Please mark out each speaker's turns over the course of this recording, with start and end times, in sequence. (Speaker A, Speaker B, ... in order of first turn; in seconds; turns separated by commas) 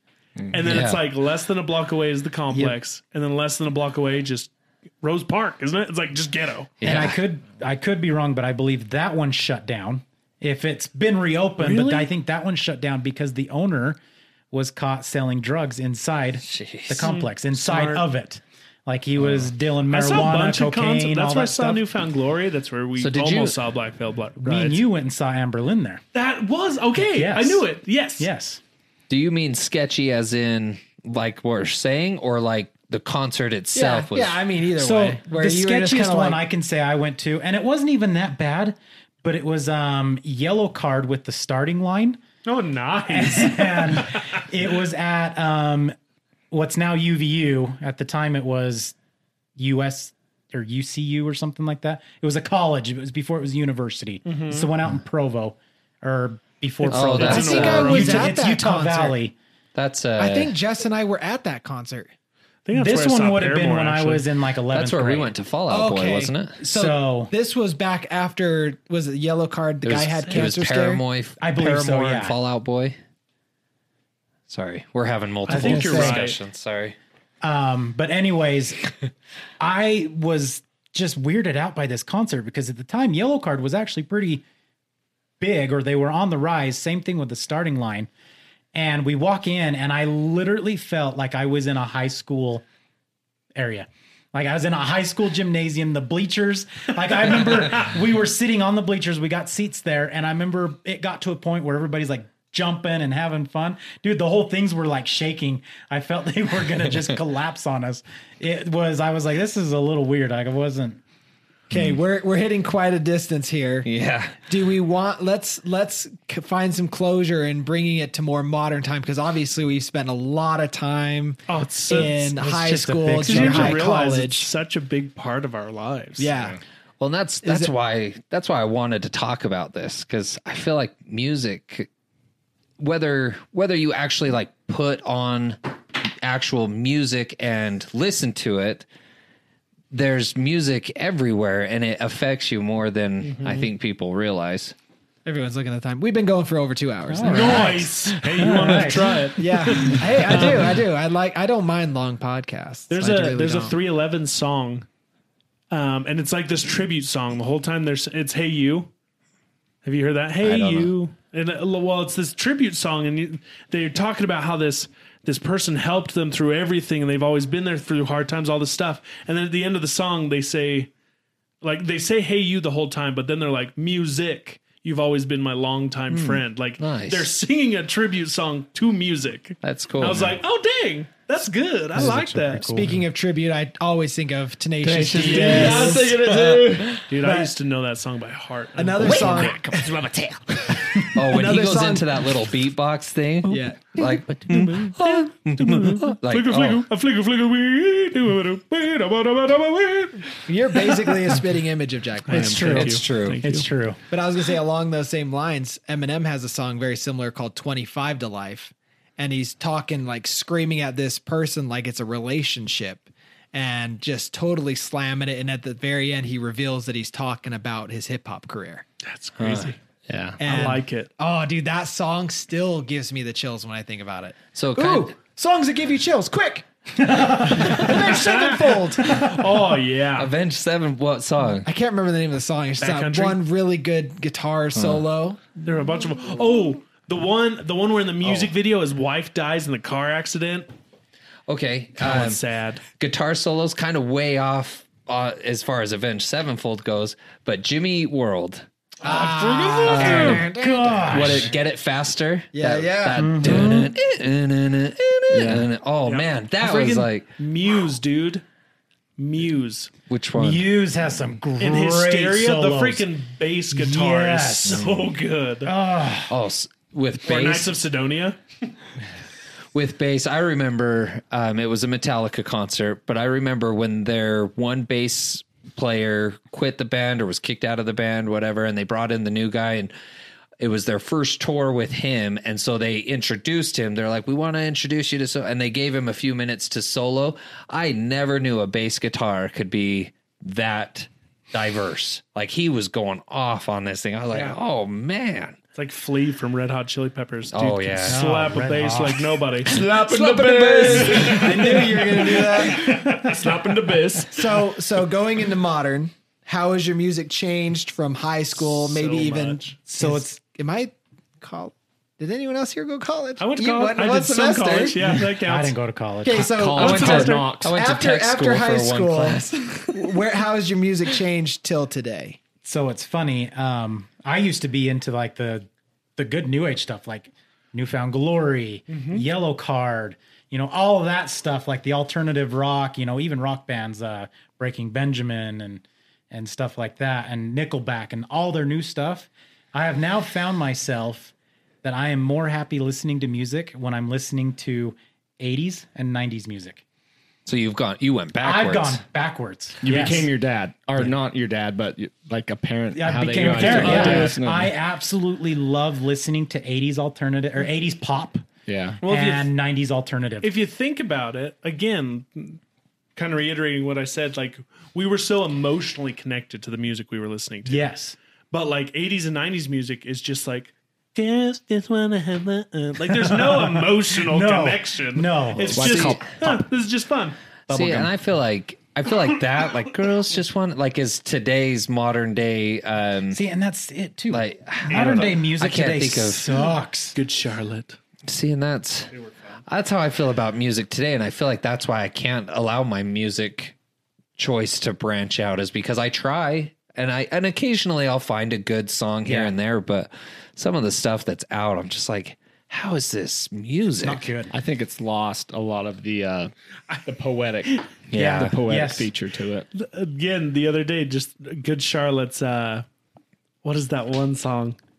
Speaker A: 0.5-4.5, Speaker B: 0.6-1.0, Speaker C: 2.5-2.8, Speaker A: 5.0-6.7, Speaker B: 6.8-7.2, Speaker C: 6.8-14.0, Speaker A: 11.6-12.1, Speaker C: 14.5-21.8, Speaker B: 16.4-17.1, Speaker A: 17.0-18.1, Speaker A: 19.9-24.8, Speaker B: 23.0-23.6, Speaker C: 24.4-26.0, Speaker A: 26.1-28.3, Speaker C: 27.0-27.6, Speaker C: 28.2-28.6, Speaker B: 29.1-34.4, Speaker D: 33.7-36.4, Speaker C: 34.8-42.2, Speaker A: 42.5-44.4, Speaker C: 43.1-46.0, Speaker C: 46.5-49.0, Speaker C: 49.6-59.4, Speaker A: 54.2-54.7, Speaker A: 56.9-58.4, Speaker B: 56.9-58.1, Speaker D: 57.2-59.2, Speaker B: 59.8-60.5, Speaker D: 60.2-62.1, Speaker A: 62.7-64.3, Speaker C: 62.7-65.3, Speaker B: 64.7-66.6, Speaker D: 65.7-71.0, Speaker C: 66.6-67.3, Speaker B: 69.8-73.0, Speaker C: 71.4-72.4, Speaker B: 74.5-77.0, Speaker A: 75.5-76.4, Speaker C: 75.5-75.9, Speaker D: 75.5-76.2, Speaker C: 77.4-78.9, Speaker C: 79.6-84.4, Speaker C: 85.4-88.1, Speaker C: 88.7-92.6, Speaker C: 93.5-111.0, Speaker D: 111.7-113.9, Speaker B: 113.8-114.4, Speaker D: 114.5-124.5, Speaker A: 121.5-122.3, Speaker C: 122.0-123.9, Speaker A: 123.2-126.3, Speaker D: 126.2-126.6, Speaker B: 127.0-131.9, Speaker D: 127.4-127.7, Speaker B: 132.8-135.6, Speaker B: 136.2-138.9, Speaker B: 139.9-144.8, Speaker A: 143.2-143.7, Speaker D: 145.2-153.8, Speaker C: 147.1-149.3, Speaker A: 147.2-150.8, Speaker A: 152.9-154.9, Speaker A: 155.7-158.9, Speaker A: 159.8-170.9, Speaker B: 160.4-160.9, Speaker A: 171.6-182.8, Speaker C: 176.1-176.4, Speaker B: 176.8-177.3, Speaker B: 179.6-180.4, Speaker C: 181.9-183.0, Speaker D: 182.7-186.6, Speaker E: 184.8-187.1, Speaker B: 185.1-185.9, Speaker A: 185.2-186.2, Speaker A: 187.1-189.6, Speaker D: 187.2-187.5, Speaker D: 188.8-189.9, Speaker E: 189.1-191.0, Speaker D: 190.7-192.2, Speaker B: 191.1-196.9, Speaker D: 193.4-194.6, Speaker A: 194.8-201.4, Speaker D: 200.5-202.9, Speaker A: 202.3-203.7, Speaker C: 202.3-204.0, Speaker B: 202.7-203.4, Speaker D: 204.1-218.9, Speaker A: 219.0-219.8, Speaker B: 219.4-219.8, Speaker E: 220.1-220.4, Speaker D: 220.4-229.4, Speaker A: 220.4-221.1, Speaker B: 224.5-225.2, Speaker C: 227.0-227.9, Speaker A: 227.8-230.3, Speaker B: 230.2-231.7, Speaker D: 231.7-235.6, Speaker A: 232.8-233.4, Speaker B: 234.8-235.0, Speaker A: 235.6-240.7, Speaker B: 241.5-242.4, Speaker A: 242.0-242.8, Speaker B: 243.0-248.7, Speaker D: 249.0-251.6, Speaker A: 249.1-250.4, Speaker C: 249.1-251.5, Speaker B: 249.8-250.5, Speaker B: 251.1-257.3, Speaker D: 252.5-253.8, Speaker C: 253.1-253.8, Speaker E: 255.3-255.7, Speaker A: 256.1-258.4, Speaker A: 259.2-259.9, Speaker B: 260.1-260.7, Speaker C: 260.4-263.1, Speaker A: 261.6-265.7, Speaker C: 263.7-264.9, Speaker B: 264.7-265.0, Speaker C: 265.6-266.3, Speaker B: 266.3-267.7, Speaker A: 267.2-268.4, Speaker B: 269.7-279.9, Speaker B: 280.6-295.6, Speaker A: 295.8-304.6, Speaker B: 297.5-298.2, Speaker C: 298.1-299.4, Speaker E: 299.7-301.6, Speaker D: 299.8-303.0, Speaker C: 301.0-303.6, Speaker D: 304.3-315.2, Speaker A: 308.6-309.7, Speaker C: 310.0-310.4, Speaker A: 313.4-315.8, Speaker C: 315.1-316.5, Speaker D: 316.2-322.4, Speaker E: 316.5-317.8, Speaker A: 316.8-317.5, Speaker B: 316.8-320.1, Speaker C: 322.6-346.8, Speaker A: 328.9-329.2, Speaker B: 347.5-349.0, Speaker C: 348.4-350.3, Speaker E: 349.8-354.7, Speaker C: 352.9-358.5, Speaker A: 353.4-354.4, Speaker E: 358.7-359.0, Speaker A: 359.0-359.5, Speaker C: 359.0-360.5, Speaker A: 360.4-362.6, Speaker A: 363.2-367.8, Speaker C: 367.6-368.2, Speaker A: 368.5-377.4, Speaker C: 373.1-375.9, Speaker E: 375.7-376.6, Speaker B: 375.8-376.3, Speaker C: 377.7-378.1, Speaker B: 377.7-383.4, Speaker C: 383.3-387.2, Speaker B: 384.3-386.5, Speaker A: 384.9-385.3, Speaker A: 387.1-388.0, Speaker B: 388.3-389.1, Speaker A: 389.1-389.5, Speaker B: 389.7-393.8, Speaker B: 394.4-404.3, Speaker C: 399.2-399.5, Speaker C: 404.0-404.5, Speaker E: 404.5-406.5, Speaker E: 407.0-409.7, Speaker B: 408.1-408.6, Speaker C: 408.2-409.1, Speaker A: 409.7-412.9, Speaker A: 413.6-414.8